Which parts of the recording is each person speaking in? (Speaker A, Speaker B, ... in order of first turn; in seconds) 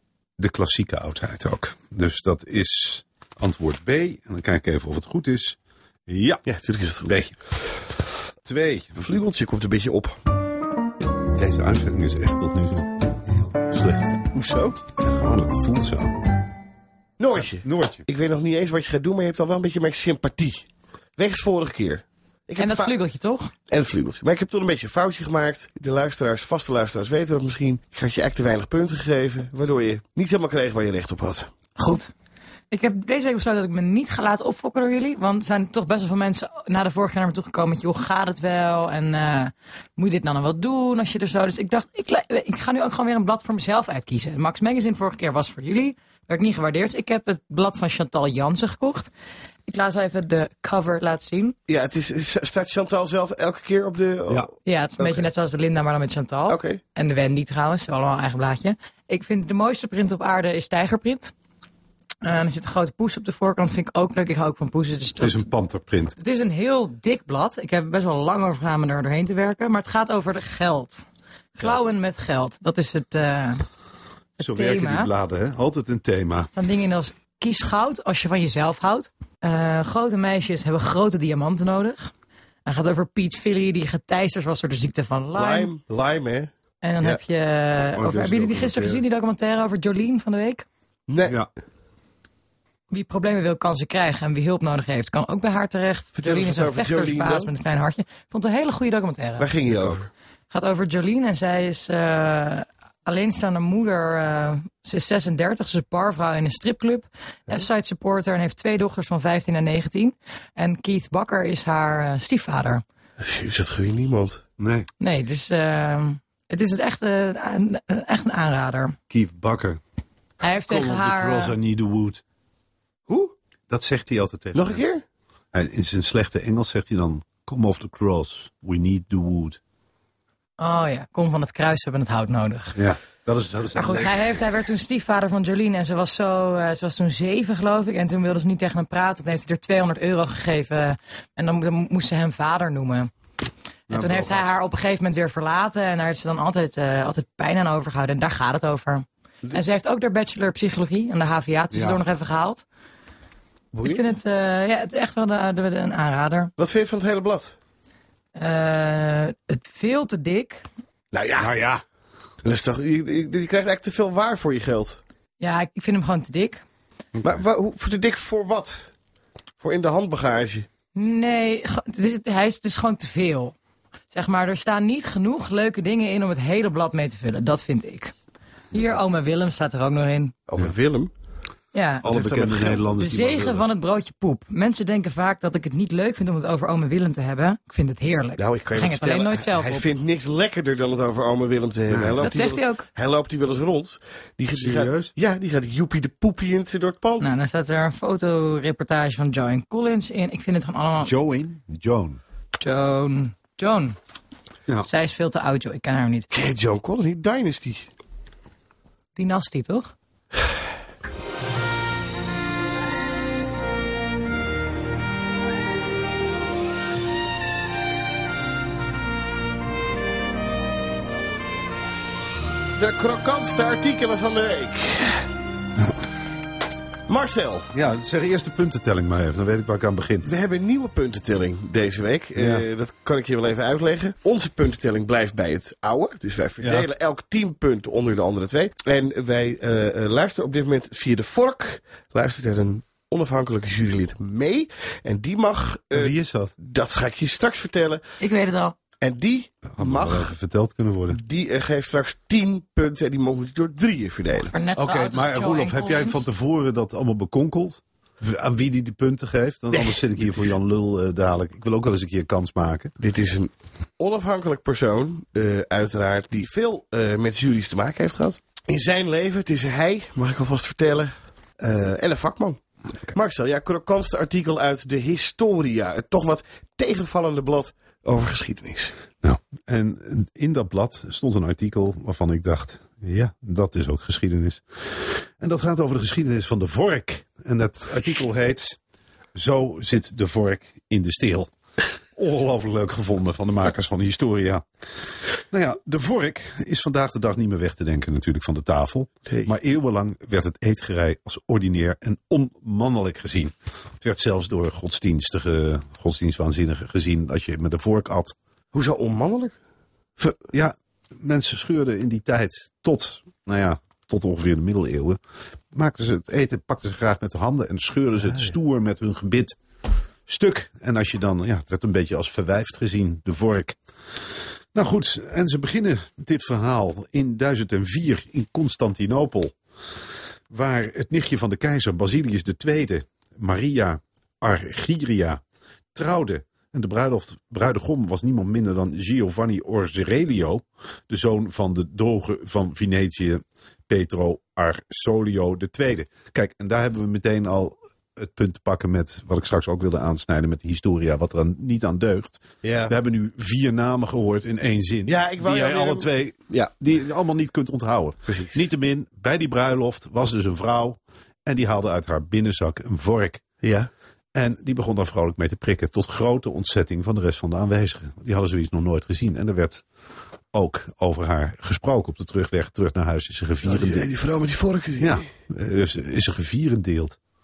Speaker A: 0.4-6.4, 7.0-7.3, 8.4-9.2, 11.3-14.2, 15.0-16.1, 17.4-18.0, 65.2-66.2, 74.4-76.5, 88.0-89.0, 99.7-100.0, 114.6-114.9, 119.1-119.8, 120.7-122.2, 123.7-124.8, 125.5-129.6, 132.8-134.3, 143.9-144.5, 151.7-152.0, 161.4-161.8, 182.0-183.6, 191.9-192.3, 194.5-195.1, 201.0-202.2, 227.7-230.3, 232.3-232.7, 236.6-236.9, 245.9-246.5, 249.7-251.2, 254.8-262.9, 279.2-288.8, 289.3-291.5, 292.1-294.6, 295.5-308.3, 310.5-315.2, 315.7-319.6, 320.2-323.8, 324.7-329.5, 330.5-335.4, 335.9-363.4, 364.3-369.8, 370.5-374.1, 375.0-377.2
Speaker B: 6.5-7.1, 9.0-10.2, 14.3-14.8, 17.2-20.6, 21.2-22.9, 23.7-31.5, 51.7-55.2, 56.5-56.8, 85.3-87.2, 91.1-91.4, 96.2-97.5, 99.4-100.1, 113.2-114.4, 123.1-123.3, 124.5-125.0, 153.7-154.1, 156.6-157.6, 161.1-161.5, 162.4-165.0, 167.2-168.9, 169.6-170.7, 180.5-181.1, 182.0-182.9, 188.4-197.2, 206.3-207.9, 222.8-225.2, 227.1-227.7, 230.2-248.0, 249.0-250.3, 251.1-254.5, 263.0-272.6, 273.1-278.9, 299.2-299.5, 308.7-309.5, 352.6-352.9, 355.1-356.7, 358.3-358.6, 363.6-363.9, 373.6-375.3
Speaker C: 22.6-23.5, 31.8-32.1, 32.7-49.1, 49.6-51.5, 54.6-61.3, 62.2-65.5, 66.2-71.0, 71.5-73.6, 74.4-75.1, 76.5-82.1, 82.7-85.7, 86.8-90.7, 92.9-99.5, 100.5-112.8, 115.0-119.0, 120.4-121.5, 130.6-132.8, 133.7-143.1, 143.9-152.6, 153.8-156.5, 158.3-160.6, 165.4-166.6, 170.9-173.5, 174.1-178.1, 178.7-180.3, 181.7-182.1, 182.9-189.8, 192.2-192.8, 197.2-201.1, 202.6-204.0, 204.8-206.3, 209.1-209.9, 248.2-248.8, 254.5-256.2